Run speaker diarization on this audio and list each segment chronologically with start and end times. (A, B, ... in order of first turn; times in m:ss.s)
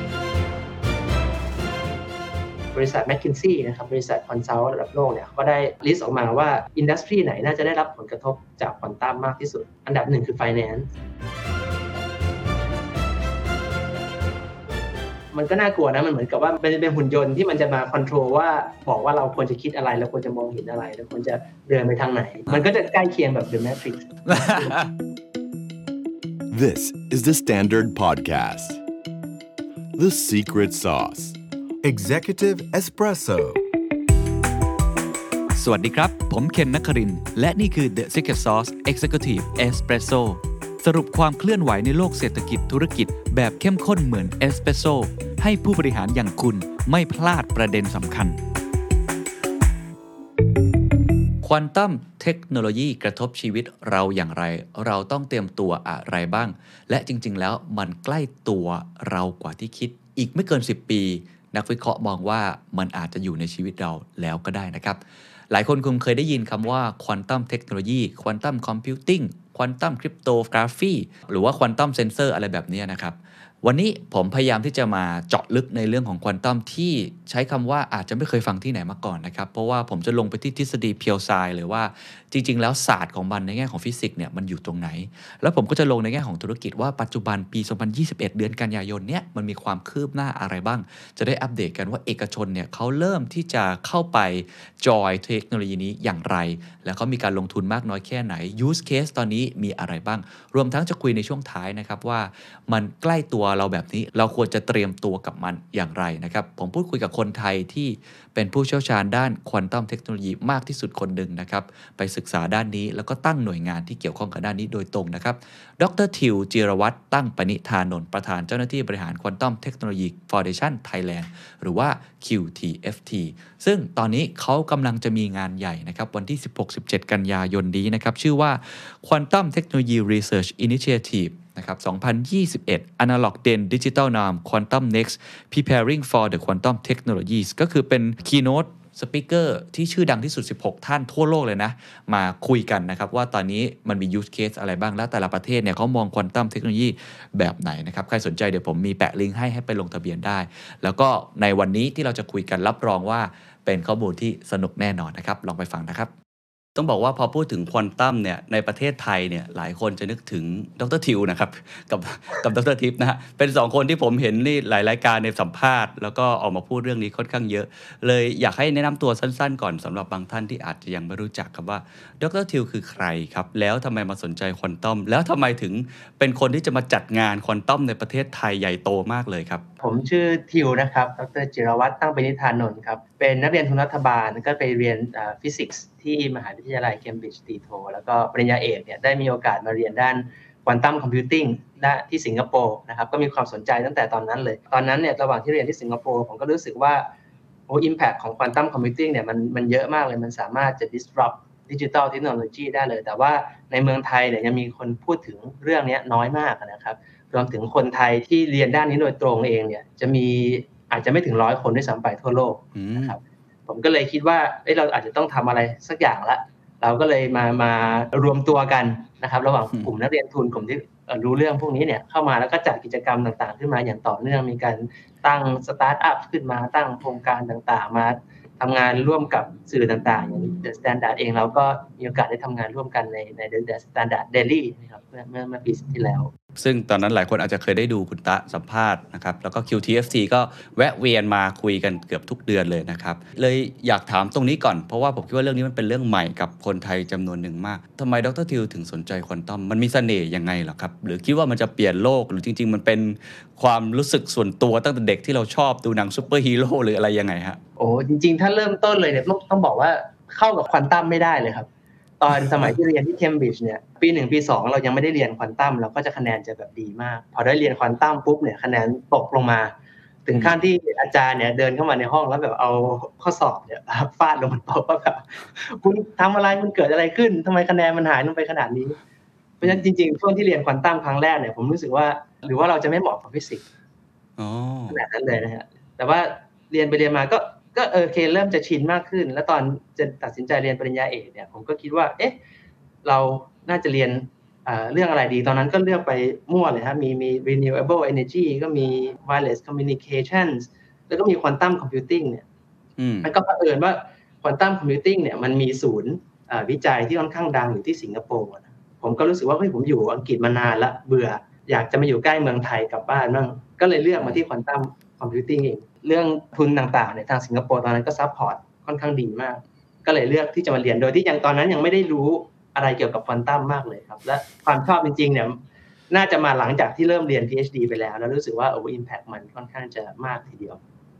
0:02.7-0:10.9 A
0:15.3-0:24.8 A
0:24.3-0:24.9 B
0:26.5-0:28.8 C
0:30.0-0:33.6 C
0:35.5-0:48.4 B
0:51.4-1:05.0 B
1:05.5-2:36.1 B
2:36.8-2:59.6 B
2:59.8-3:17.0 A
3:17.7-3:56.3 A
3:32.7-3:33.2 B
3:56.6-4:17.6 B
4:17.8-4:21.7 A
4:22.2-4:29.7 A
4:22.5-4:22.7 B
4:30.2-4:39.0 A
4:39.6-4:43.6 A
4:44.4-4:45.0 B
4:44.9-4:52.4 A
4:53.0-5:02.4 A
5:03.0-5:03.3 B
5:03.2-5:25.6 A
5:26.1-5:30.8 A